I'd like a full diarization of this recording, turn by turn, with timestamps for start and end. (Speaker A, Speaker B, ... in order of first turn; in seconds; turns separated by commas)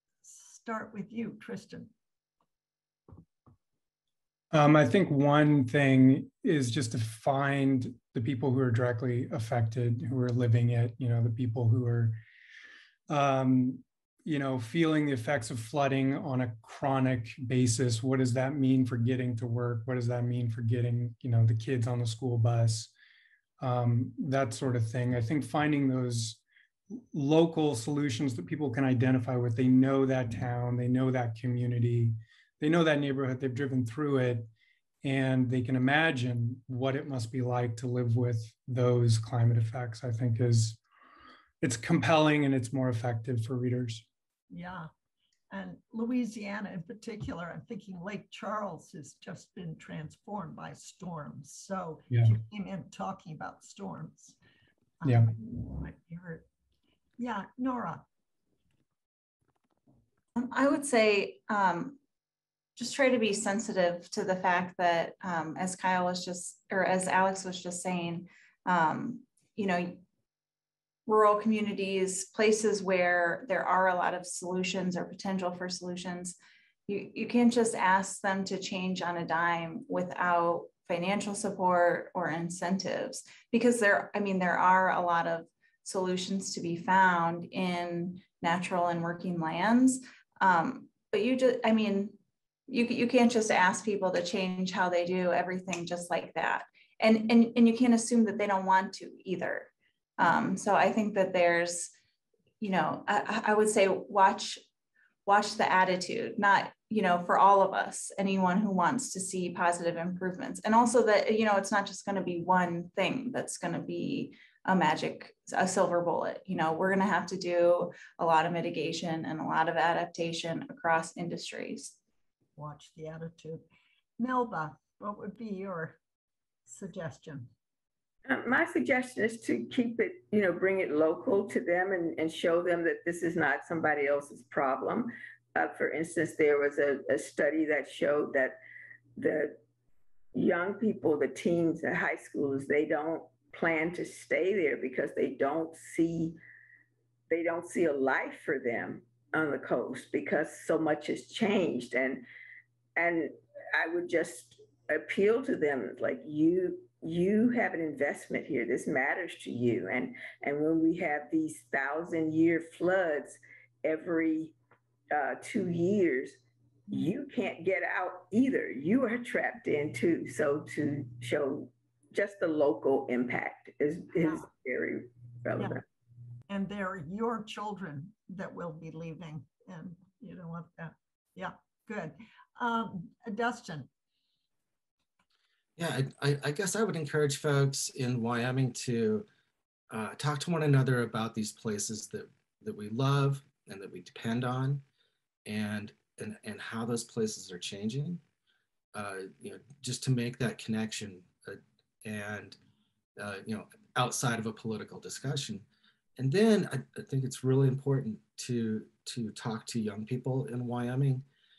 Speaker A: 0.2-1.9, Speaker B: 4.5-12.2, Speaker B: 13.1-22.9, Speaker B: 23.6-26.4, Speaker B: 27.1-34.5, Speaker B: 35.0-40.8, Speaker B: 41.6-44.0, Speaker A: 44.5-44.9, Speaker A: 45.5-54.4, Speaker A: 55.0-56.5, Speaker B: 55.0-55.3, Speaker A: 57.2-58.0, Speaker C: 60.4-62.0, Speaker C: 62.8-70.0, Speaker C: 71.1-76.4, Speaker C: 76.9-92.2, Speaker C: 92.7-101.9, Speaker C: 102.6-104.6, Speaker C: 105.3-122.0, Speaker A: 122.6-123.7, Speaker A: 124.2-126.0, Speaker A: 126.7-127.5, Speaker D: 128.3-138.6, Speaker D: 139.2-139.6, Speaker D: 140.3-146.4, Speaker D: 147.3-152.2, Speaker D: 153.0-164.6, Speaker D: 165.1-175.8, Speaker A: 176.5-183.9, Speaker E: 185.8-189.3, Speaker E: 189.9-194.8, Speaker E: 195.5-198.2, Speaker E: 198.9-202.6, Speaker E: 203.2-205.7, Speaker E: 206.2-211.2